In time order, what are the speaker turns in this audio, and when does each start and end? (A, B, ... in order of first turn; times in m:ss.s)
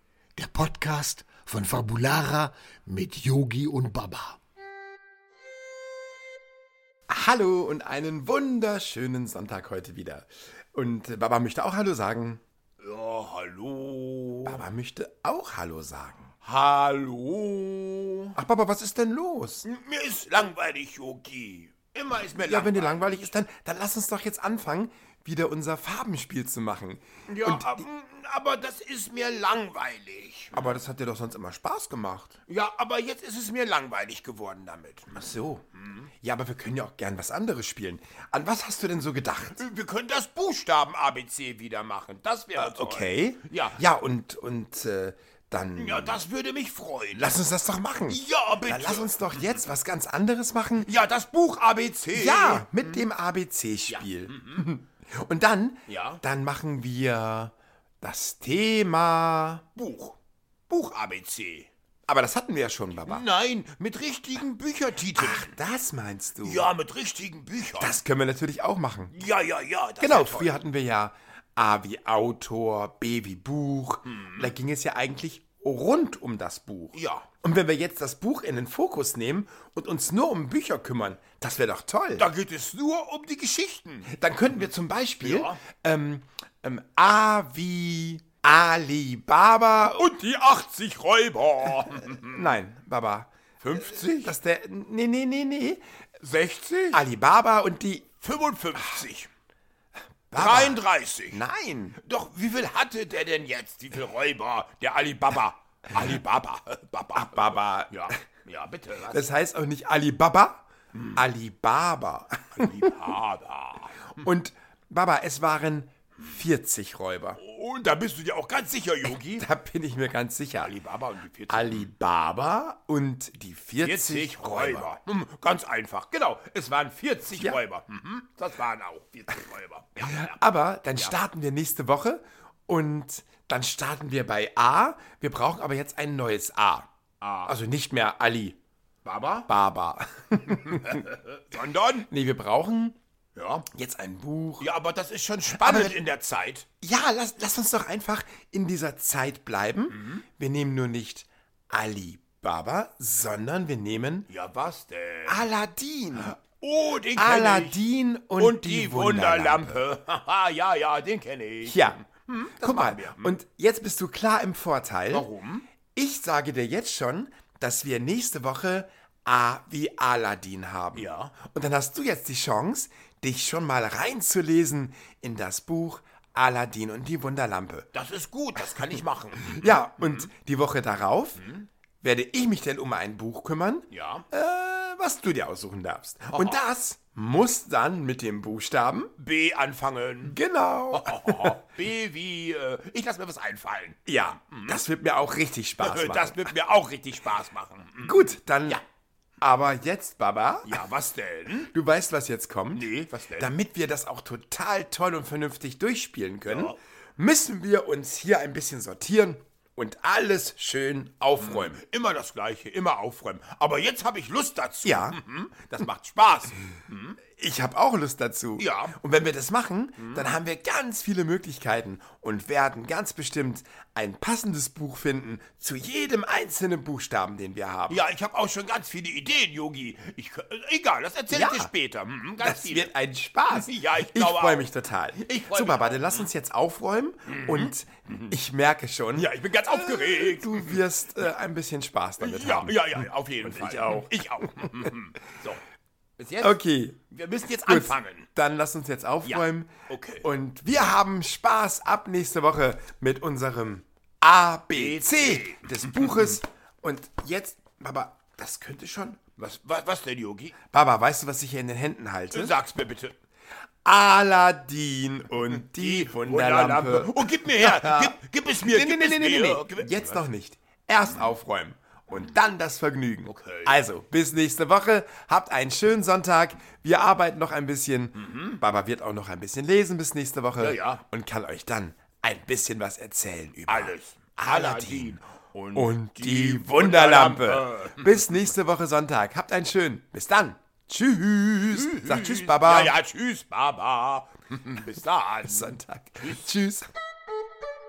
0:00.4-0:04.4 A
0:07.1-0:12.4 B
0:12.8-0:14.6 C
0:14.4-0:16.3 B
0:16.4-0:18.4 C
0:18.4-0:19.7 B
0:19.6-0:23.3 C
0:22.3-0:27.8 B
0:27.3-0:30.8 C
0:30.5-0:32.4 B
0:32.5-0:35.2 C
0:35.1-0:35.6 B
0:36.2-0:39.6 B
0:39.5-0:43.8 C
0:42.6-0:46.2 B
0:45.8-0:47.4 C
0:47.2-0:50.9 B
0:48.1-0:49.6 C
0:50.8-0:53.0 C
0:52.1-0:59.7 B
0:53.9-0:54.6 C
0:55.9-0:56.2 C
0:59.8-1:00.2 C
1:00.7-1:01.7 C
1:02.1-1:03.2 B
1:03.1-1:05.5 C
1:05.1-1:06.7 B
1:06.4-1:08.0 C
1:07.8-1:09.2 B
1:09.1-1:10.5 C
1:10.0-1:22.3 B
1:14.1-1:14.5 C
1:16.9-1:17.3 C
1:22.2-1:24.1 C
1:24.1-1:30.1 B
1:25.2-1:25.6 C
1:30.0-1:32.6 C
1:32.0-1:35.8 B
1:33.6-1:34.4 C
1:36.2-1:37.0 C
1:36.9-1:38.2 B
1:38.2-1:39.3 C
1:40.3-1:42.0 B
1:40.3-1:41.4 C
1:42.0-1:49.3 C
1:47.1-1:48.1 B
1:49.1-1:52.7 B
1:51.0-1:51.2 C
1:52.6-1:54.2 C
1:54.2-1:57.4 B
1:57.4-1:59.4 C
1:59.0-2:00.8 B
2:00.6-2:01.9 C
2:01.5-2:05.0 B
2:03.8-2:10.4 C
2:10.0-2:16.9 B
2:17.2-2:17.5 C
2:17.4-2:18.6 B
2:19.0-2:19.5 C
2:19.5-2:21.1 B
2:20.7-2:22.1 C
2:22.0-2:23.0 B
2:23.4-2:23.7 C
2:23.7-2:24.7 B
2:24.6-2:26.7 C
2:25.5-2:26.0 B
2:26.8-2:34.3 B
2:29.9-2:30.2 C
2:34.3-2:35.5 C
2:35.3-2:36.4 B
2:36.2-2:37.8 C
2:37.2-2:39.8 B
2:38.4-2:43.4 C
2:41.6-2:42.0 B
2:42.6-2:45.3 B
2:45.1-2:45.7 C
2:45.9-2:57.9 B
2:51.0-2:51.3 C
2:57.9-3:00.3 C
2:59.5-3:01.4 B
3:01.4-3:01.7 C
3:02.0-3:09.1 B
3:03.9-3:04.2 C
3:06.2-3:06.6 C
3:09.2-3:10.4 C
3:10.2-3:11.6 B
3:10.9-3:14.0 C
3:14.1-3:16.4 B
3:14.5-3:14.8 C
3:15.8-3:18.2 C
3:18.0-3:18.8 B
3:19.4-3:20.8 B
3:20.6-3:21.7 C
3:21.6-3:31.8 B
3:22.7-3:23.5 C
3:26.4-3:26.8 C
3:31.4-3:37.2 C
3:34.8-3:35.2 B
3:37.4-3:48.0 B
3:38.6-3:39.0 C
3:40.0-3:40.3 C
3:47.9-3:52.9 C
3:51.3-3:51.7 B
3:52.4-4:04.1 B
3:53.5-3:56.3 C
3:57.3-3:58.4 C
3:59.1-4:00.8 C
4:02.2-4:05.6 C
4:06.2-4:06.6 C
4:06.4-4:07.0 B
4:07.1-4:08.3 C
4:07.6-4:19.2 B
4:09.2-4:10.3 C
4:14.7-4:16.4 C
4:19.4-4:20.6 C
4:20.7-4:22.6 B
4:22.3-4:23.2 C
4:23.8-4:45.2 B
4:25.5-4:30.3 C
4:33.2-4:33.8 C
4:38.2-4:38.6 C
4:40.6-4:41.0 C
4:43.7-4:48.3 C
4:45.8-4:53.0 B
4:51.7-4:56.4 C
4:55.4-4:56.9 B